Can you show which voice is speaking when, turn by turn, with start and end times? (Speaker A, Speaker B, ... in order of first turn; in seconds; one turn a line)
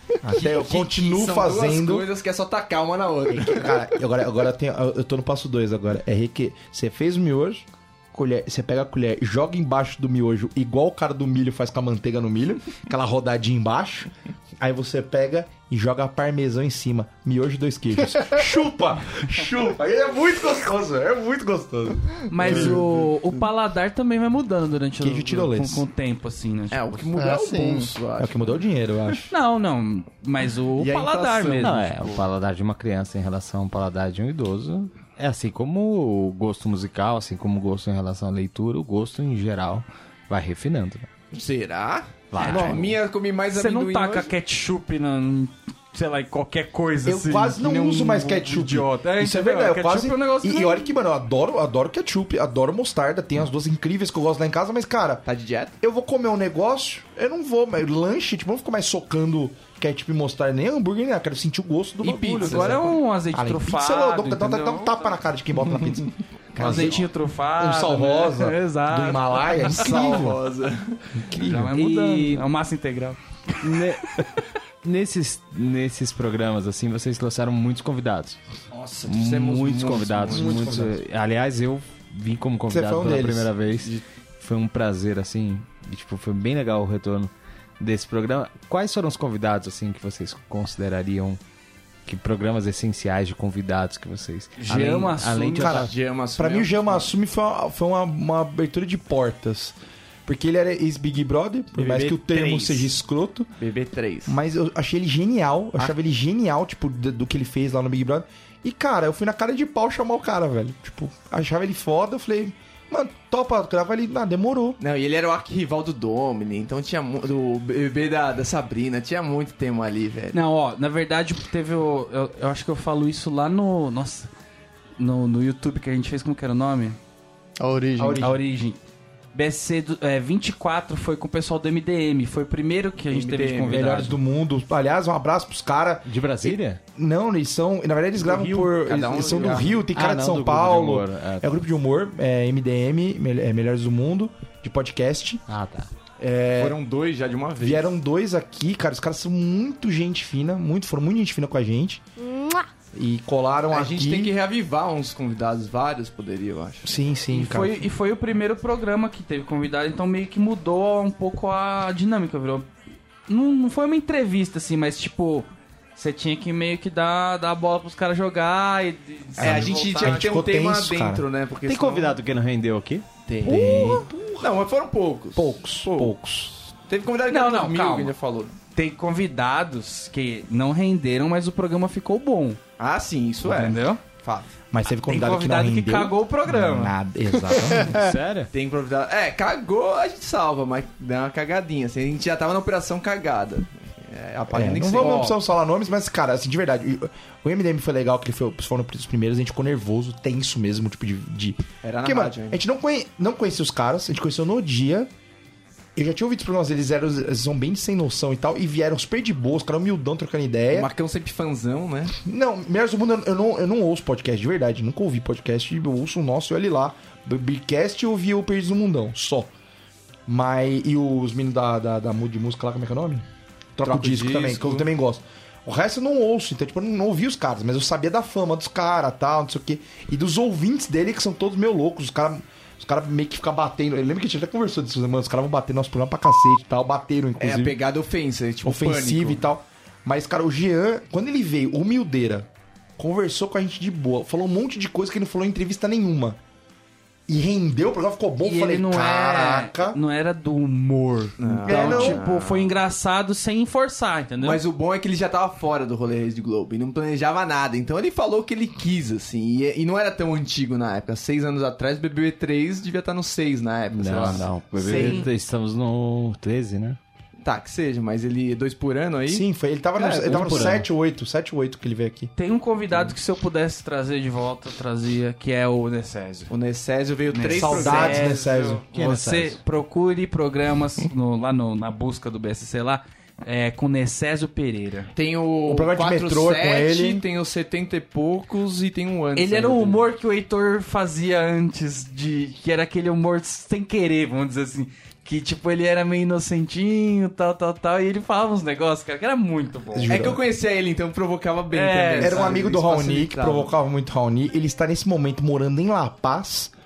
Speaker A: 0.2-2.1
Speaker B: 0.4-3.7
Speaker A: 3.3-22.8
Speaker C: 22.3-27.1
Speaker D: 22.4-22.7
Speaker A: 25.0-25.8
Speaker B: 26.7-28.6
Speaker D: 27.1-27.9
Speaker A: 28.2-29.3
Speaker C: 29.3-31.8
Speaker B: 30.8-32.2
Speaker E: 31.6-41.1
Speaker B: 41.3-44.3
Speaker E: 42.3-42.9
Speaker C: 42.4-42.8
Speaker C: 43.5-50.9
Speaker A: 47.0-55.2
Speaker B: 55.2-55.7
Speaker A: 55.8-70.4
Speaker B: 62.0-62.9
Speaker C: 62.4-65.1
Speaker B: 66.5-67.0
Speaker C: 66.6-69.8
Speaker B: 69.7-71.0
Speaker A: 71.1-71.7
Speaker C: 71.4-73.8
Speaker E: 71.7-72.5
Speaker E: 73.6-74.2
Speaker E: 74.8-78.4
Speaker B: 78.7-80.5
Speaker E: 79.0-91.4
Speaker A: 80.3-81.0
Speaker A: 82.7-83.5
Speaker E: 92.0-95.9
Speaker C: 94.6-95.8
Speaker A: 95.6-103.5
Speaker B: 95.7-97.1
Speaker B: 103.6-104.4
Speaker A: 104.3-114.8
Speaker B: 114.8-120.3
Speaker C: 120.3-124.3
Speaker C: 125.0-127.0
Speaker D: 127.6-128.3
Speaker A: 128.0-128.4
Speaker C: 128.2-128.8
Speaker C: 129.3-134.2
Speaker B: 133.1-133.8
Speaker A: 133.7-145.4
Speaker E: 136.1-136.8
Speaker B: 138.2-139.8
Speaker E: 139.9-141.5
Speaker E: 145.5-145.9
Speaker A: 146.2-146.8
Speaker B: 146.6-147.9
Speaker A: 147.6-152.0
Speaker A: 152.9-154.3
Speaker B: 153.7-156.9
Speaker A: 156.8-157.9
Speaker C: 157.3-162.7
Speaker C: 163.3-170.3
Speaker A: 169.4-171.2
Speaker B: 169.4-172.2
Speaker E: 171.6-173.6
Speaker B: 173.3-176.1
Speaker A: 173.4-174.5
Speaker A: 175.3-176.6
Speaker B: 176.9-178.6
Speaker C: 177.3-178.1
Speaker C: 178.8-182.6
Speaker B: 182.8-184.5
Speaker C: 183.4-184.0
Speaker A: 184.7-188.0
Speaker C: 185.0-186.9
Speaker E: 187.9-188.5
Speaker B: 188.5-195.3
Speaker A: 194.5-205.1
Speaker C: 195.0-195.3
Speaker B: 201.8-202.6
Speaker A: 205.9-210.9
Speaker B: 210.7-212.2
Speaker A: 212.2-219.5
Speaker A: 220.3-223.2
Speaker A: 223.8-237.8
Speaker B: 223.8-224.9
Speaker B: 237.4-239.4
Speaker A: 238.6-246.4
Speaker A: 247.3-250.0
Speaker C: 248.4-254.6
Speaker B: 251.4-252.8
Speaker A: 251.6-252.2
Speaker B: 254.4-265.2
Speaker E: 263.9-267.0
Speaker C: 264.8-265.3
Speaker B: 267.4-270.8
Speaker A: 269.3-272.3
Speaker E: 270.1-270.9
Speaker C: 272.4-276.5
Speaker B: 276.5-278.4
Speaker C: 277.3-285.1
Speaker A: 277.6-278.8
Speaker E: 278.9-279.6
Speaker B: 285.1-290.1
Speaker A: 285.7-287.2
Speaker C: 289.3-300.1
Speaker A: 299.9-300.4
Speaker B: 300.1-303.7
Speaker C: 301.7-302.6
Speaker A: 302.2-306.7